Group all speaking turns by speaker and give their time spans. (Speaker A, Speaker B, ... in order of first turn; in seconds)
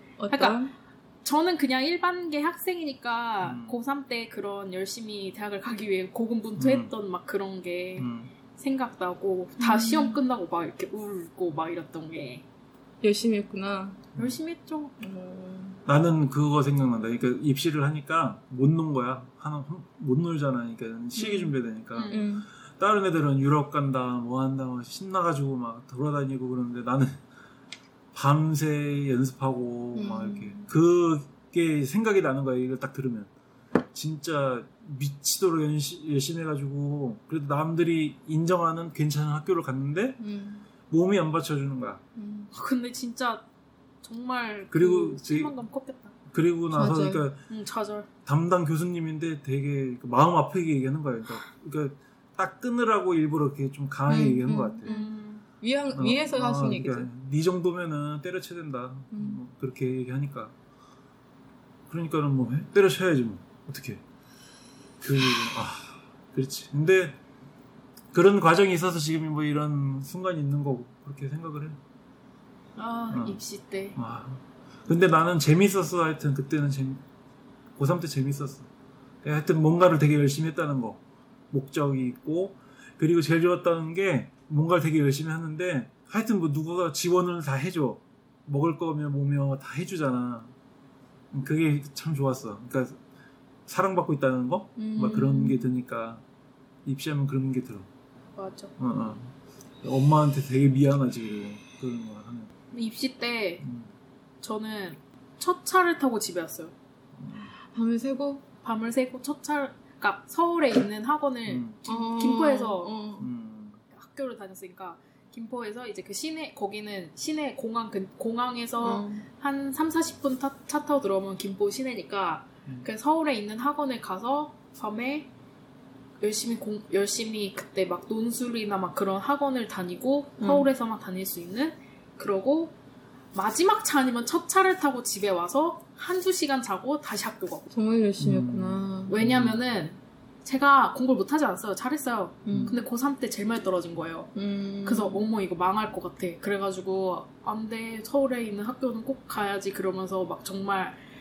Speaker A: 0.2-0.7, 9.6-10.2, 13.0-14.1, 15.0-15.8, 22.1-22.5, 29.9-30.6, 40.2-40.7, 42.2-42.5, 46.7-47.3, 54.1-57.1, 59.1-59.4, 94.8-95.6, 107.7-108.5, 111.9-113.3, 118.8-119.2, 130.4-130.7, 137.7-139.1, 142.4-142.8, 144.3-145.2
Speaker B: 0.3-0.7, 1.2-12.4, 14.2-14.9, 21.9-22.2, 42.5-43.5, 44.0-46.2, 47.5-48.1, 54.9-55.4, 72.8-74.0, 98.4-98.7, 102.7-103.6, 104.4-106.7, 108.6-112.9, 113.9-125.3, 126.2-132.8, 133.3-137.7, 139.1-151.0
Speaker C: 3.4-3.8, 6.6-6.9, 8.0-8.3, 15.9-27.2, 28.1-33.3, 33.9-40.2, 40.9-42.0, 44.7-45.5, 46.3-47.4, 48.3-54.9, 55.9-60.5, 61.9-64.0, 65.0-67.2, 68.1-71.8, 73.1-73.4, 74.0-77.0, 77.8-78.7, 79.2-81.0, 81.5-90.5, 91.3-93.0, 93.7-96.2, 96.8-97.9, 98.8-102.5, 103.6-103.9, 107.2-107.5, 111.5-111.8, 113.2-113.8, 138.2-139.6, 142.5-142.8